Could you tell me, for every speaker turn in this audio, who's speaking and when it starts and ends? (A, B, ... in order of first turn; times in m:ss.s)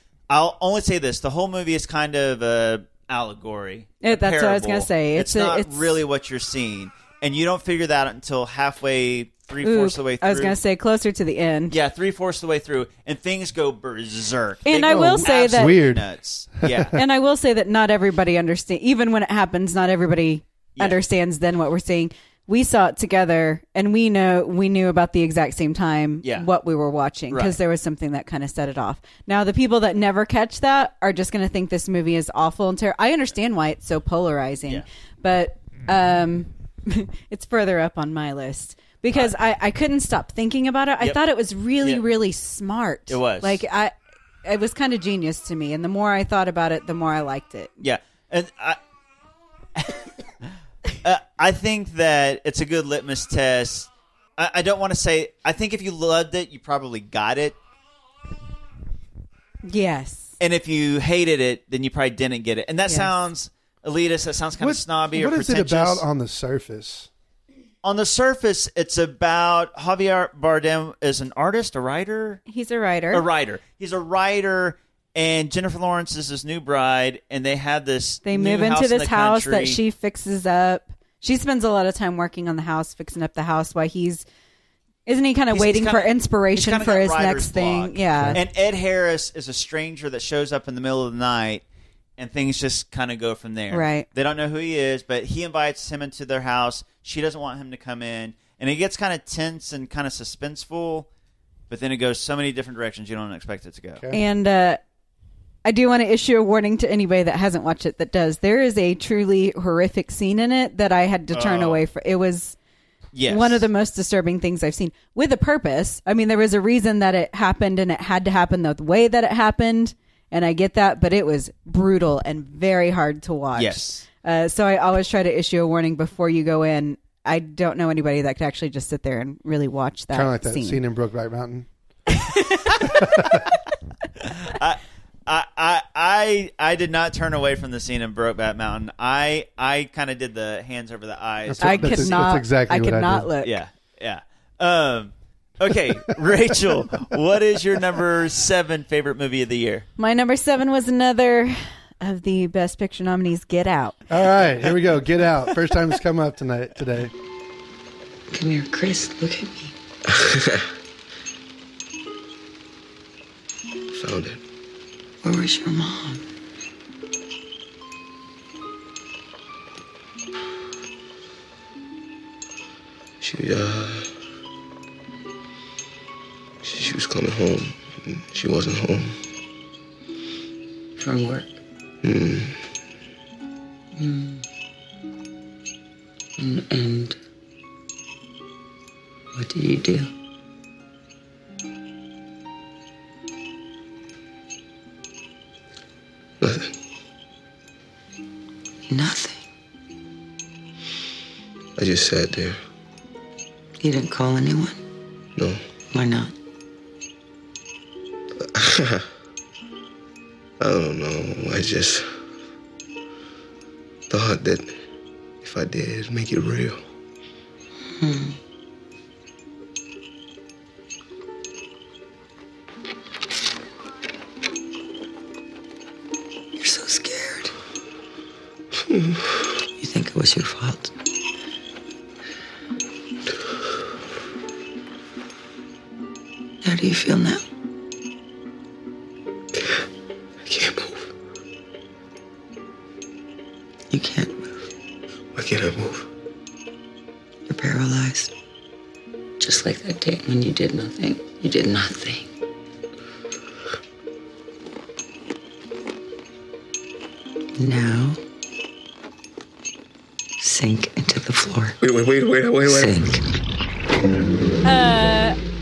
0:00.3-0:10.6 A
0:04.0-0:06.0 B
0:09.6-0:11.7 B
0:11.7-0:17.0 A
0:14.6-0:15.8 B
0:14.8-0:16.0 C
0:16.6-0:16.9 C
0:16.9-0:43.9 B
0:27.3-0:27.6 A
0:43.1-0:43.6 A
0:44.4-0:47.7 B
0:47.8-0:48.8 A
0:49.8-0:50.1 A
0:51.0-0:57.6 A
0:59.6-1:00.4 B
1:00.4-1:06.0 A
1:04.6-1:07.1 C
1:07.8-1:12.4 A
1:12.5-1:13.2 B
1:13.1-1:19.8 A
1:18.2-1:24.2 B
1:25.0-1:28.4 B
1:25.5-1:31.6 A
1:32.2-1:41.1 A
1:33.7-1:34.1 B
1:41.7-1:44.0 A
1:44.1-1:44.8 B
1:45.6-1:52.6 B
1:51.3-1:51.8 A
1:53.1-1:53.6 A
1:53.3-2:10.8 B
2:03.6-2:04.0 A
2:10.1-2:11.7 C
2:12.2-2:12.7 B
2:12.9-2:13.4 C
2:14.2-2:22.2 A
2:21.5-2:23.3 C
2:21.6-2:23.5 B
2:23.4-2:29.9 A
2:30.0-2:34.0 B
2:34.1-2:37.1 C
2:38.3-2:39.7 D
2:40.1-2:40.6 E
2:43.9-2:44.4 E
2:45.2-2:46.2 D
2:53.2-2:54.1 E
2:56.6-2:59.2 E
3:01.0-3:01.6 D
3:02.0-3:02.7 E
3:04.0-3:04.4 D
3:06.4-3:07.2 D
3:09.3-3:10.1 D
3:16.4-3:16.7 E
3:18.9-3:19.5 D
3:21.8-3:22.6 E
3:23.8-3:24.8 D
3:25.4-3:25.6 E
3:25.9-3:26.3 D
3:28.4-3:29.1 E
3:30.6-3:32.1 E
3:34.1-3:34.8 E
3:35.4-3:36.8 E
3:37.9-3:38.4 D
3:46.6-3:47.5 D
3:48.8-3:49.5 E
3:49.8-3:50.9 D
3:56.6-3:57.4 D
4:00.4-4:01.1 E
4:03.9-4:04.6 D
4:05.3-4:06.1 E
4:07.4-4:08.3 D
4:09.4-4:12.3 D
4:17.6-4:18.2 D
4:20.4-4:21.7 D
4:21.8-4:23.2 E
4:22.6-4:23.2 D
4:24.6-4:25.4 B